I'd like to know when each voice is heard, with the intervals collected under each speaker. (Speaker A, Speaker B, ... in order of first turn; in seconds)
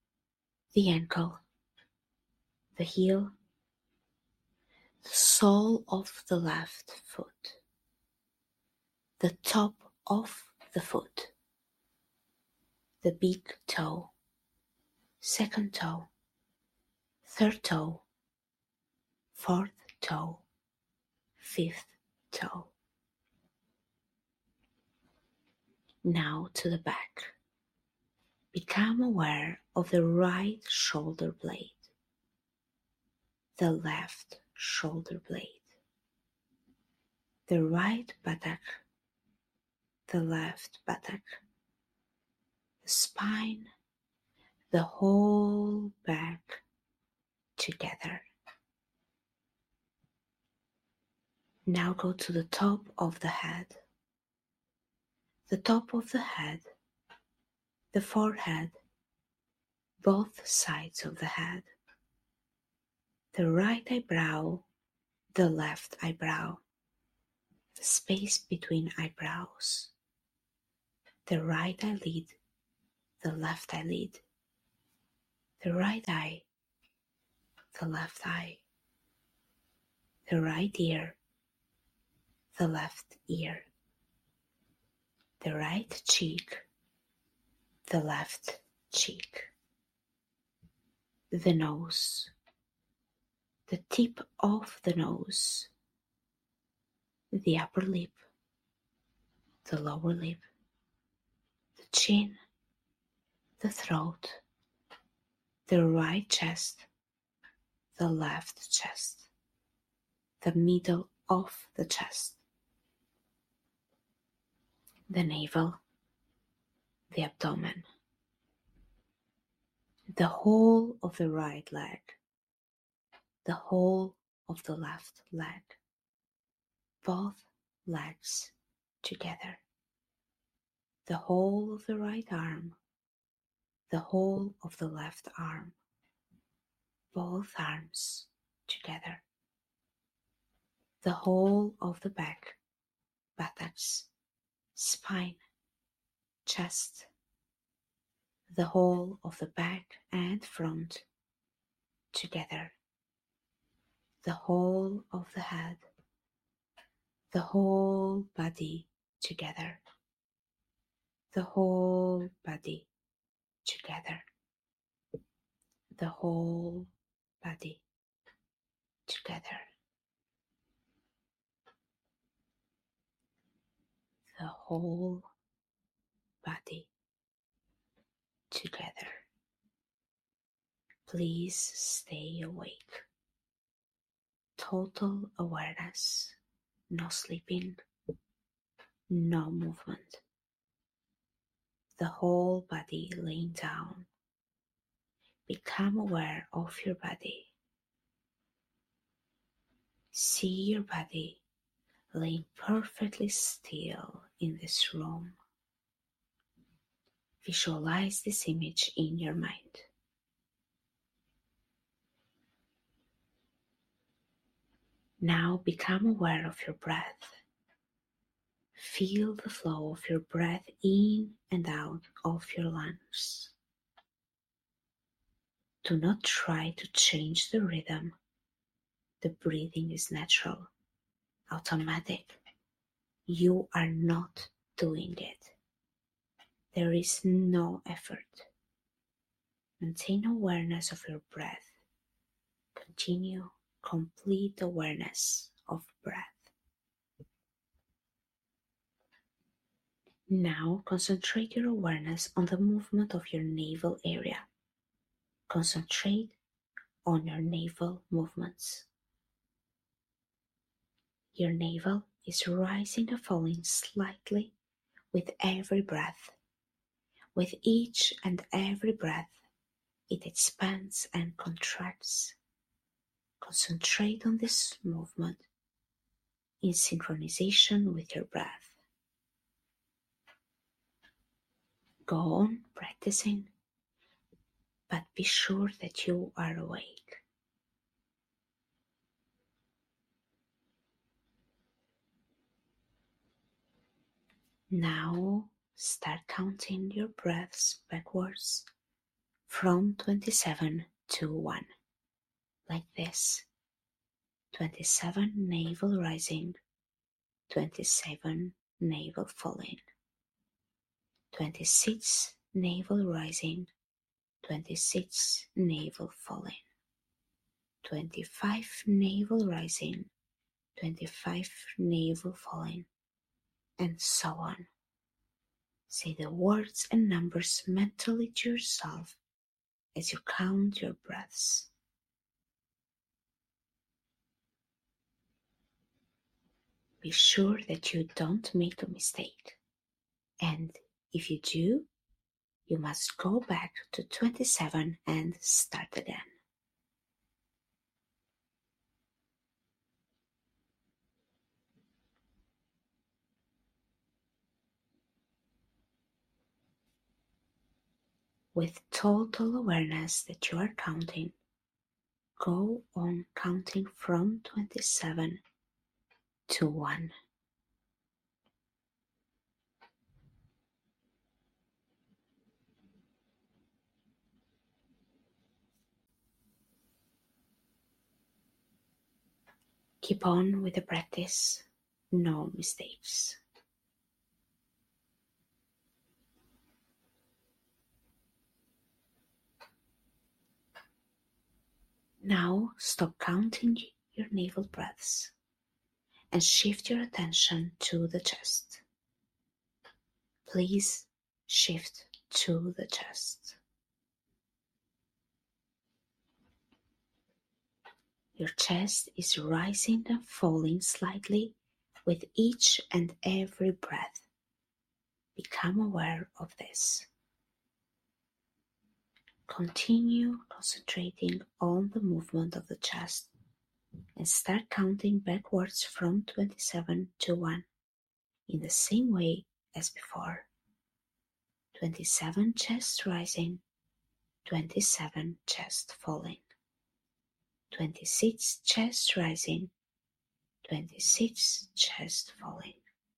Speaker A: 0.7-1.4, 2.8-3.4, 5.0-7.6, 9.2-11.3, 13.0-14.1, 15.2-16.1, 17.2-18.1, 19.3-20.4, 21.4-22.7, 26.0-27.4, 28.5-31.9, 33.6-35.8, 37.5-38.8, 40.1-41.4, 42.8-43.7, 44.7-46.6, 47.6-48.3, 51.7-53.8, 55.5-56.7, 57.9-58.8, 60.0-61.7, 63.3-64.7, 65.3-66.6, 67.8-69.9, 71.3-72.4, 73.2-74.2, 75.6-76.5, 77.7-78.6, 80.3-81.2, 82.5-83.7, 85.4-86.7, 87.9-89.5, 91.3-92.3, 93.7-95.7, 97.3-98.2, 99.7-100.4, 101.8-102.4, 103.6-104.4, 105.7-106.9, 108.0-109.3, 110.4-112.4, 115.1-115.8, 117.1-117.8, 120.1-122.2, 123.5-125.8, 127.0-129.6, 131.1-132.8, 133.9-135.8, 137.1-139.2, 141.0-142.6, 143.4-144.1, 144.8-145.4, 146.5-147.1, 148.5-151.1, 152.1-152.8, 154.2-155.8, 157.3-159.8, 161.3-162.9, 163.7-164.2, 166.0-166.9, 167.4-167.8, 169.1-169.7, 174.3-175.3, 176.4-176.9, 178.5-179.3, 181.1-183.1, 184.6-186.4, 186.9-187.8, 189.1-190.2, 192.0-194.1, 195.5-197.5, 200.1-201.4, 202.1-205.4, 207.4-209.9, 215.2-217.4, 218.8-223.5, 225.8-228.2, 229.2-230.7, 231.5-232.4, 233.3-235.6, 236.7-238.5, 239.8-241.8, 242.8-246.5, 250.3-254.5, 255.5-256.4, 257.1-258.9, 261.3-264.5, 265.1-266.4, 267.4-269.4, 270.1-272.4, 273.4-275.5, 276.6-278.8, 282.1-283.5, 284.9-287.2, 294.7-298.7, 299.5-301.7, 302.7-303.5, 304.5-306.6, 307.5-309.8, 311.3-313.7, 314.4-316.6, 317.8-320.1, 320.8-322.9, 323.8-324.7, 325.9-329.2, 329.9-331.7, 337.0-339.6, 340.4-341.9, 342.7-346.3, 358.5-361.4, 362.4-365.4, 366.5-367.1, 380.0-383.4, 392.2-395.3, 396.3-398.8, 400.4-403.6, 408.4-414.3, 415.4-417.1, 419.5-423.3, 424.2-427.7, 428.5-430.5, 431.7-433.6, 434.4-436.4, 437.7-439.7, 440.6-442.8